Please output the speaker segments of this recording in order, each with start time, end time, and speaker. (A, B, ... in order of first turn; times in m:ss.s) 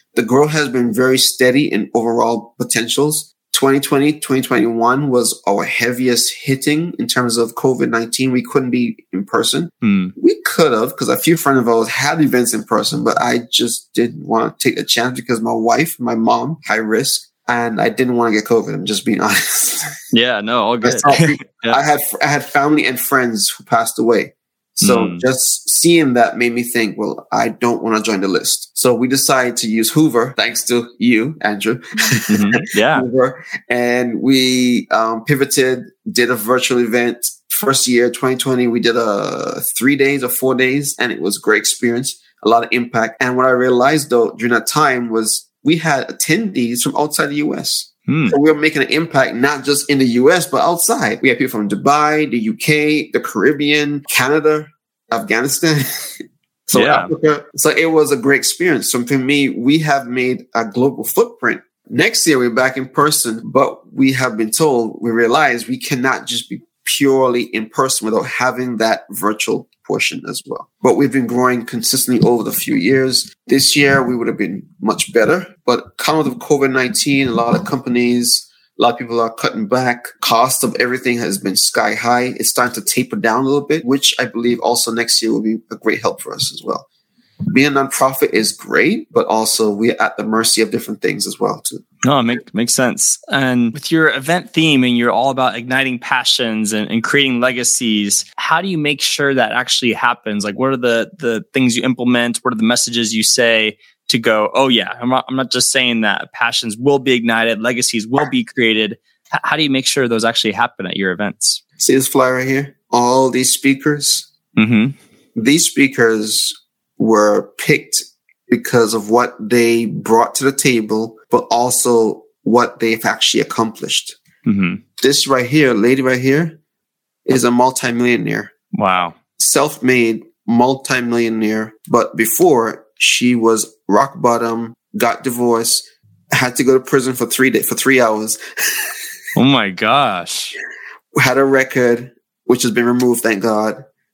0:00.1-0:19.9 A
0:09.8-0:10.1 B
0:20.1-0:21.8 B
0:20.8-0:56.1 A
0:24.8-0:25.2 B
0:32.3-0:33.1 B
0:48.1-0:48.4 B
0:56.7-1:26.8 A
0:56.7-0:57.1 B
1:27.5-1:31.8 A
1:32.0-1:51.6 B
1:51.8-1:54.3 A
1:54.6-1:55.0 B
1:55.3-2:04.2 A
2:04.4-2:04.8 B
2:05.0-2:06.6 A
2:07.2-2:08.5 A
2:08.7-2:09.2 B
2:09.4-2:18.8 A
2:19.4-2:20.6 B
2:21.1-2:23.8 A